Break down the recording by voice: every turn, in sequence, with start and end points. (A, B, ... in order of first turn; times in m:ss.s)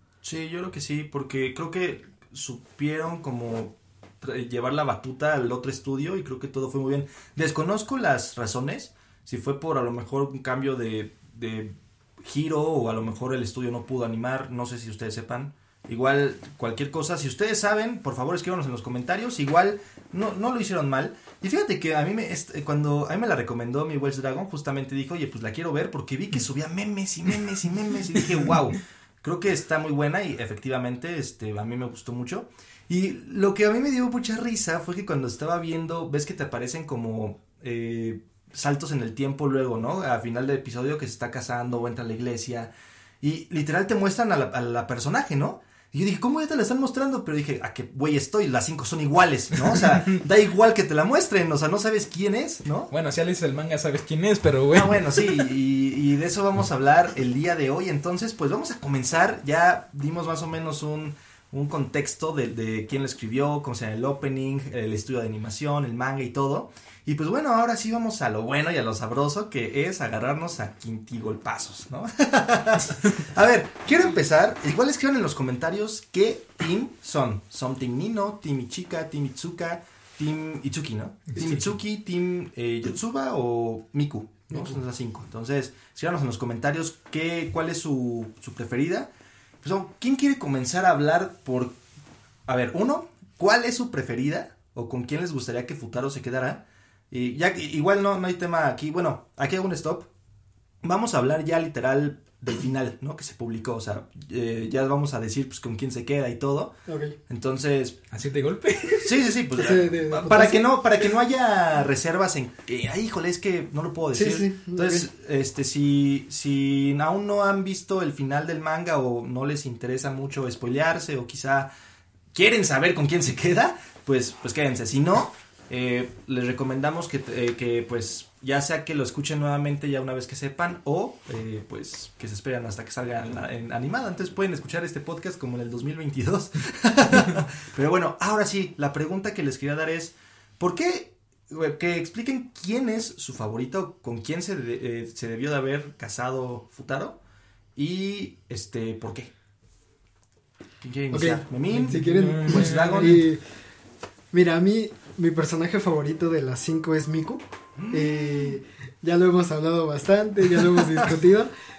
0:00.2-0:52.9 A
0:52.9-0:55.4 B
0:54.7-1:29.1 A
1:21.3-1:21.6 B
1:29.6-1:31.8 A
1:32.4-1:40.1 A
1:40.8-1:46.8 A
1:46.9-1:47.2 C
1:47.3-1:48.0 A
1:48.1-1:49.3 B
1:49.0-2:01.7 A
1:49.6-1:50.7 C
1:54.1-1:55.1 C
2:02.3-2:27.2 A
2:27.7-2:29.3 A
2:30.8-2:33.2 A
2:31.1-2:33.4 C
2:31.7-2:33.2 B
2:34.3-2:41.5 C
2:37.8-2:38.6 A